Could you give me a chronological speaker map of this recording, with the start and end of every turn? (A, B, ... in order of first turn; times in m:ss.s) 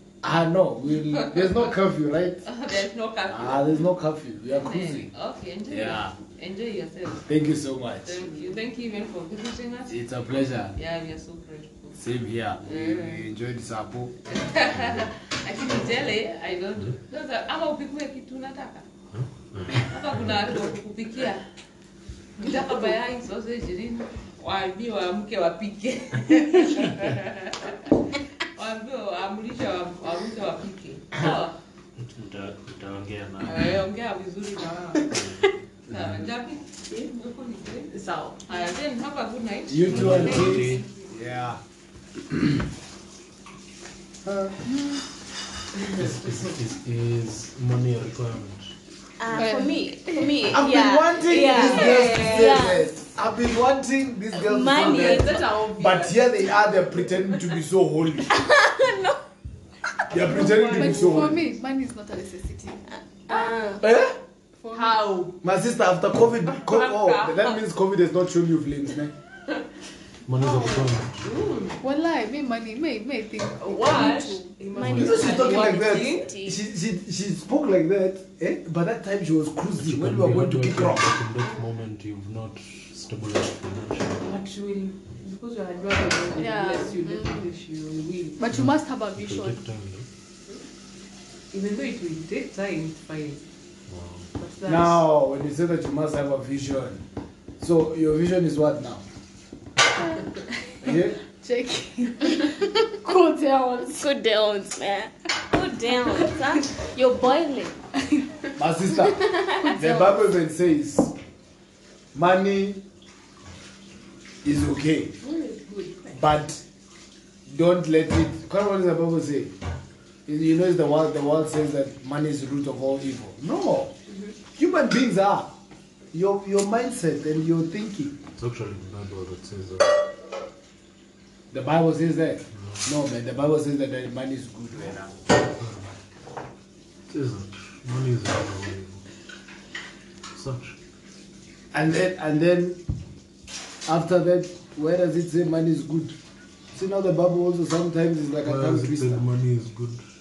0:00.2-0:02.4 A
0:01.2-0:01.5 B
0:02.4-0:03.9 B
0:03.3-0:05.1 A
0:04.6-0:07.3 B
0:05.7-0:06.1 A
0:07.3-0:08.3 A
0:08.0-0:10.0 B
0:09.9-0:10.8 A
0:10.7-0:12.0 B
0:12.0-0:14.1 A
0:12.6-0:13.3 B
0:14.3-0:18.9 B
0:19.1-0:20.6 C
0:19.7-0:21.4 B
0:22.4-0:28.0 B
0:28.5-0:31.6 B
0:32.0-0:33.9 C
0:33.4-0:40.9 B
0:35.1-0:36.2 C
0:38.5-0:38.8 D
0:39.7-0:41.6 A
0:39.8-0:40.8 C
0:42.3-0:42.6 A
0:44.3-0:44.5 A
0:44.6-0:45.0 D
0:45.9-0:48.8 C
0:49.2-0:52.9 E
0:49.4-0:50.3 D
0:50.5-0:58.3 A
0:51.3-0:52.6 B
0:54.4-0:55.6 E
0:54.6-0:56.7 B
0:58.3-0:59.2 E
1:00.1-1:01.4 A
1:00.2-1:01.4 B
1:00.2-1:02.9 D
1:03.3-1:03.8 E
1:03.8-1:04.2 B
1:03.8-1:04.1 A
1:04.6-1:05.0 D
1:04.7-1:05.4 B
1:05.4-1:09.2 A
1:06.5-1:07.6 B
1:10.3-1:11.4 C
1:10.4-1:11.8 B
1:11.8-1:14.6 D
1:13.6-1:16.3 B
1:14.7-1:16.6 E
1:14.8-1:15.2 C
1:14.9-1:21.2 A
1:19.8-1:24.4 C
1:24.2-1:28.5 B
1:26.3-1:27.5 E
1:28.4-1:29.6 D
1:28.5-1:30.1 C
1:31.5-1:33.4 B
1:33.9-1:34.3 C
1:34.4-1:35.0 B
1:34.7-1:37.0 A
1:37.6-1:39.1 A
1:40.3-1:44.1 D
1:40.8-1:41.2 A
1:43.9-1:47.8 E
1:48.6-1:51.2 A
1:49.3-1:49.8 E
1:49.6-1:50.2 D
1:52.1-1:52.8 A
1:54.4-1:55.2 A
1:55.3-1:56.1 B
1:56.1-1:56.6 A
1:57.5-1:59.6 A
2:00.3-2:04.0 A
2:04.6-2:05.5 A
2:06.1-2:08.2 A
2:08.4-2:10.0 C
2:11.5-2:15.2 A
2:12.6-2:12.9 C
2:15.5-2:16.0 C
2:17.1-2:19.1 C
2:20.3-2:20.8 C
2:21.7-2:22.8 A
2:23.9-2:26.2 A
2:26.7-2:29.2 A
2:28.4-2:30.0 C